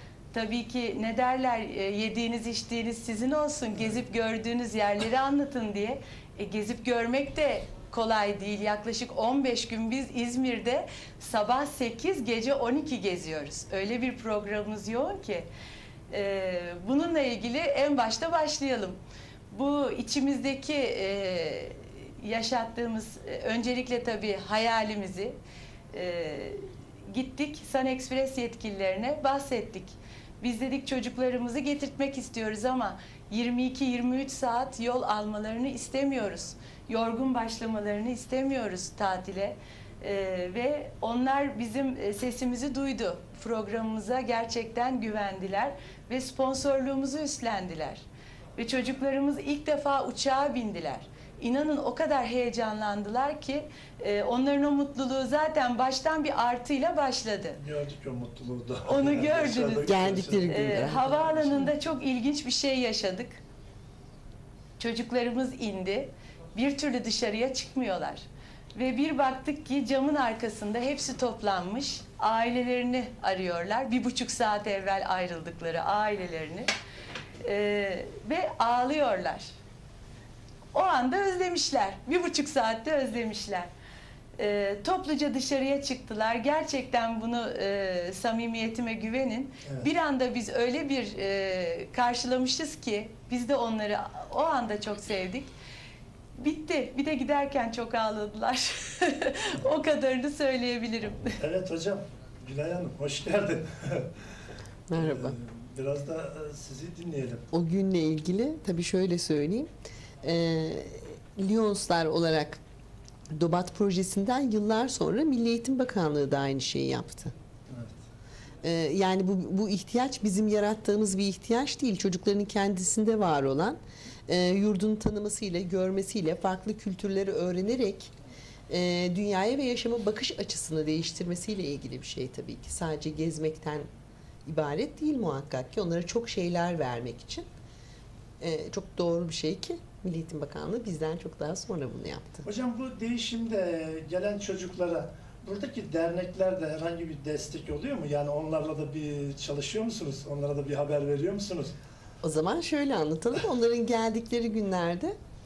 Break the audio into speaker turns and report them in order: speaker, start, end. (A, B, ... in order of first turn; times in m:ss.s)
0:00.3-0:15.5 A
0:16.1-0:19.0 A
0:19.5-0:25.4 A
0:25.9-0:48.0 A
0:48.6-0:57.6 A
0:57.6-1:01.7 B
0:58.9-1:03.4 A
0:59.8-1:01.4 C
1:04.8-1:16.7 A
1:17.4-1:19.5 A
1:20.7-1:23.7 A
1:24.4-1:35.5 A
1:36.4-1:41.4 A
1:41.4-1:44.1 B
1:44.9-1:45.4 C
1:44.9-1:47.4 B
1:47.5-1:49.7 C
1:50.2-1:52.6 C
1:53.3-1:57.3 C
1:57.7-1:58.0 B
1:58.6-2:08.1 C
2:08.7-2:13.9 C
2:14.4-2:17.5 C
2:18.4-2:22.5 C
2:22.4-2:31.8 B
2:32.2-2:35.2 C